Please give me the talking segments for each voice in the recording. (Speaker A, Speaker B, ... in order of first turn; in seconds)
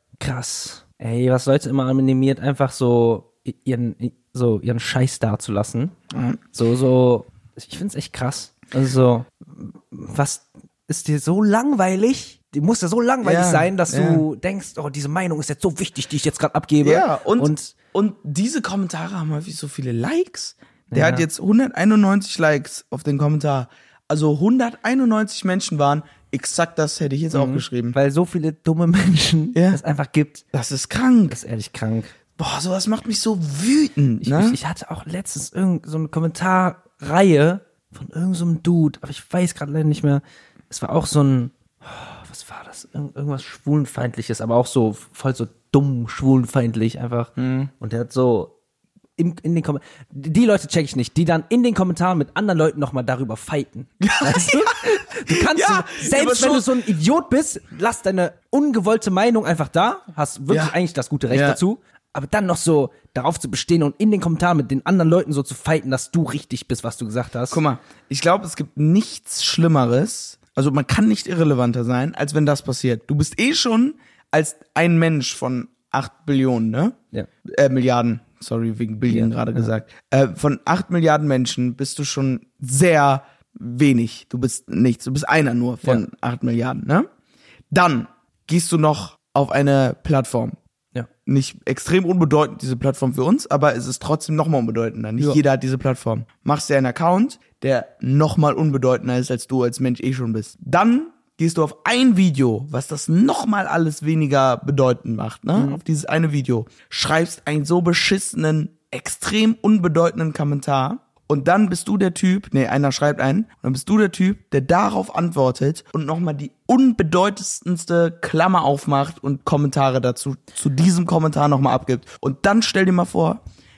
Speaker A: 0.2-6.0, 6.5-17.7, 20.9-21.3, 27.3-30.4, 31.3-32.1, 34.2-48.5, 49.2-67.6, 79.1-79.7, 105.5-105.8
Speaker B: 6.1-6.4, 13.2-14.2, 16.8-28.0, 29.6-29.8, 30.5-31.4, 32.4-34.6, 47.4-47.7, 54.0-56.7, 60.5-60.8, 61.3-61.6, 67.5-87.1, 87.7-90.6, 91.2-123.4